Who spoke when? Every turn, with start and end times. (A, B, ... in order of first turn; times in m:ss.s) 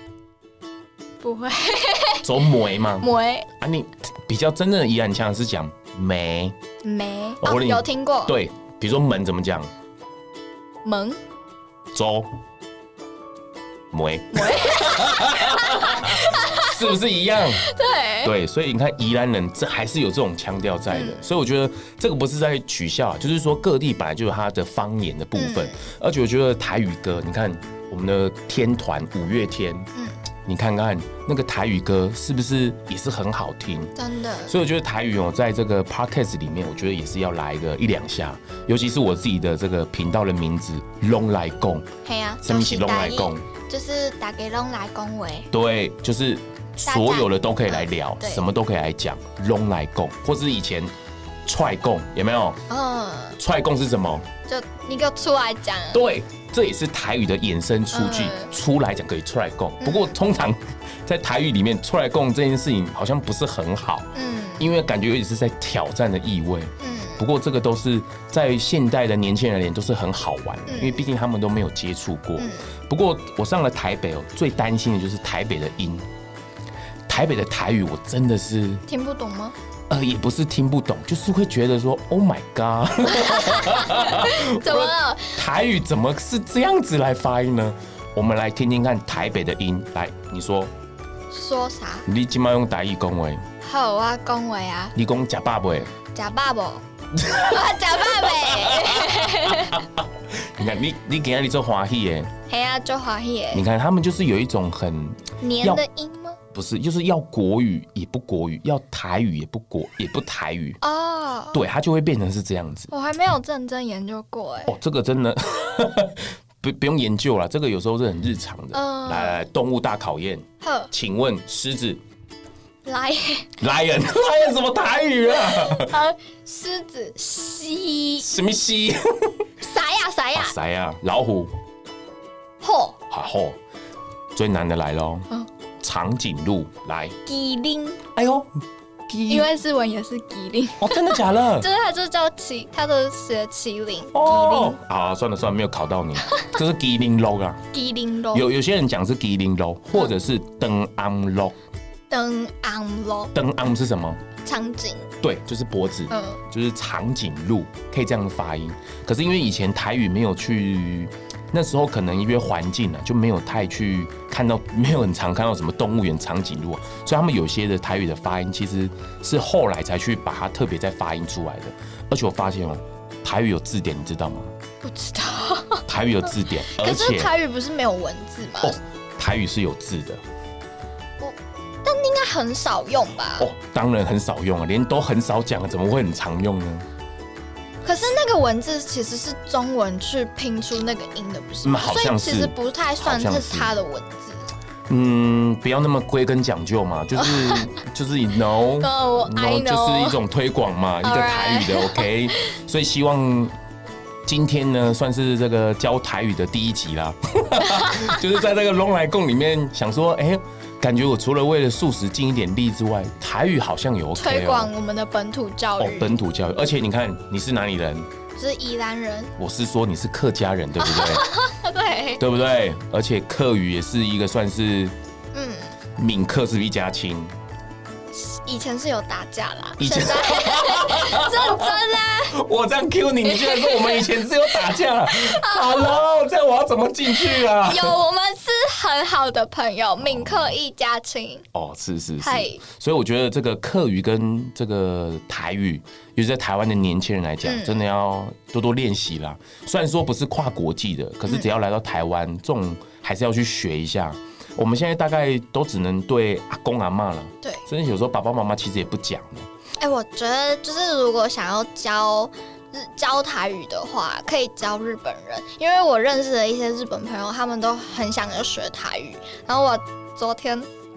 0:01.2-0:02.3 A
0:02.2-0:06.5 B
0:03.0-0:03.5 A
0:06.8-0:08.3 A
0:07.4-0:09.7 B
0:10.8-0:11.2 A
0:11.9-0:12.3 B
0:13.9-0:17.7 B
0:14.3-0:17.0 A
0:17.6-0:18.3 A
0:18.2-0:29.9 B
0:20.9-0:21.2 A
0:25.3-0:25.8 A
0:30.4-0:33.9 B
0:34.0-0:34.5 A
0:34.5-0:41.9 B
0:42.0-0:45.5 A
0:42.4-0:43.5 B
0:45.5-0:50.9 B
0:46.8-0:48.4 A
0:51.4-0:52.6 B
0:52.7-0:53.4 A
0:53.4-0:54.3 B
0:54.5-0:56.0 A
0:55.9-1:16.0 B
0:57.9-0:58.5 A
0:59.8-1:00.2 A
1:04.1-1:04.7 A
1:06.8-1:07.2 A
1:10.7-1:11.0 A
1:12.4-1:12.7 A
1:17.1-1:18.8 B
1:18.9-1:19.5 A
1:19.9-1:30.7 B
1:23.2-1:25.4 A
1:31.3-1:32.1 A
1:32.0-1:33.4 B
1:33.6-1:34.9 A
1:34.9-1:35.9 B
1:36.1-1:36.8 A
1:37.2-1:42.3 B
1:37.5-1:39.8 A
1:42.5-1:43.6 A
1:43.5-1:45.8 B
1:45.4-1:46.4 A
1:46.5-1:50.8 B
1:50.8-1:51.6 A
1:51.5-1:52.9 B
1:52.9-1:54.7 A
1:54.7-2:02.0 B
1:58.7-1:59.4 A
2:00.6-2:00.9 A
2:02.8-2:03.5 A
2:03.6-2:06.0 B
2:05.4-2:08.2 A
2:08.2-2:09.3 B
2:09.6-2:10.5 A
2:10.3-2:11.5 B
2:12.6-2:13.0 A
2:13.1-2:13.6 B
2:14.3-2:15.3 B
2:15.8-2:17.2 B
2:17.2-2:18.0 A
2:18.2-2:18.5 B
2:19.1-2:19.5 B
2:19.3-2:24.8 A
2:20.8-2:21.7 B
2:24.1-2:27.6 B
2:27.7-2:28.5 A
2:28.3-2:31.5 B
2:32.1-2:33.3 A
2:33.3-2:34.2 B
2:34.4-2:35.1 A
2:35.2-2:54.5 B
2:36.1-2:36.4 A
2:54.8-2:55.8 A
2:55.9-2:57.3 B
2:56.7-2:58.8 A
2:58.6-3:00.2 B
3:01.2-3:03.5 A
3:03.4-3:06.8 B
3:07.8-3:14.5 A
3:11.6-3:13.7 B
3:14.9-3:23.5 B
3:17.1-3:17.7 A
3:18.8-3:20.2 A
3:21.0-3:22.6 A
3:24.2-3:34.7 B
3:34.2-3:36.1 A
3:35.8-3:38.1 B
3:38.4-3:39.3 A
3:39.4-3:41.3 B
3:40.8-3:42.2 A
3:42.2-3:44.9 B
3:45.3-3:45.8 A
3:46.0-3:47.3 B
3:48.1-3:52.4 A
3:49.8-3:58.0 B
3:53.2-3:56.0 A
3:57.1-4:01.4 A
4:00.0-4:00.4 B
4:01.5-4:19.5 B
4:02.2-4:02.6 A
4:07.4-4:07.8 A
4:19.8-4:30.7 A